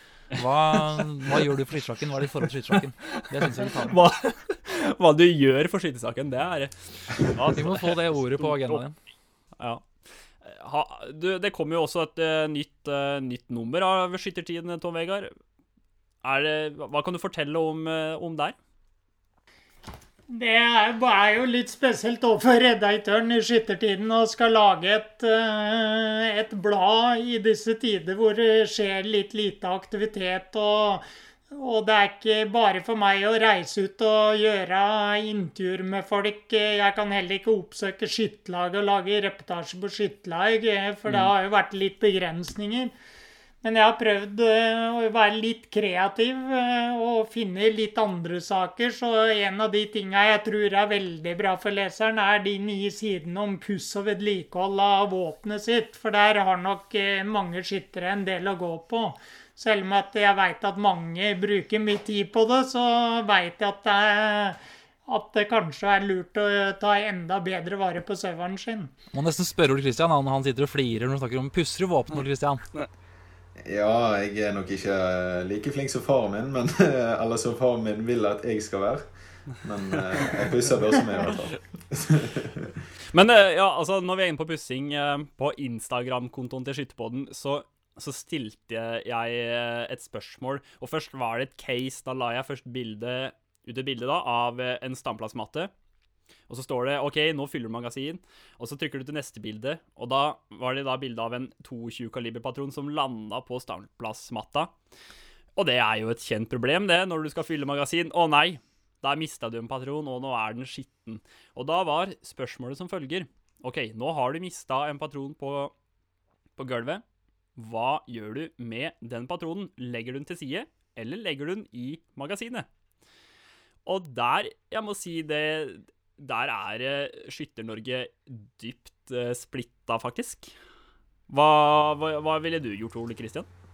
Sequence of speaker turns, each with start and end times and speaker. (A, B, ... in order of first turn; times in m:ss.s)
0:00.3-0:04.0 A
0:03.4-0:08.8 B
0:07.5-0:09.0 A
0:09.6-0:09.9 B
0:10.4-0:15.3 B
0:16.2-0:18.6 B
0:20.3-0:42.9 C
0:41.1-0:41.3 B
0:43.6-1:08.9 C
1:09.1-1:12.7 A
1:13.6-1:22.7 D
1:23.1-1:35.7 B
1:36.5-1:44.7 B
1:45.6-1:55.7 B
1:56.6-1:57.0 B
1:57.6-2:02.7 B
2:03.9-2:10.5 B
2:11.3-2:13.5 B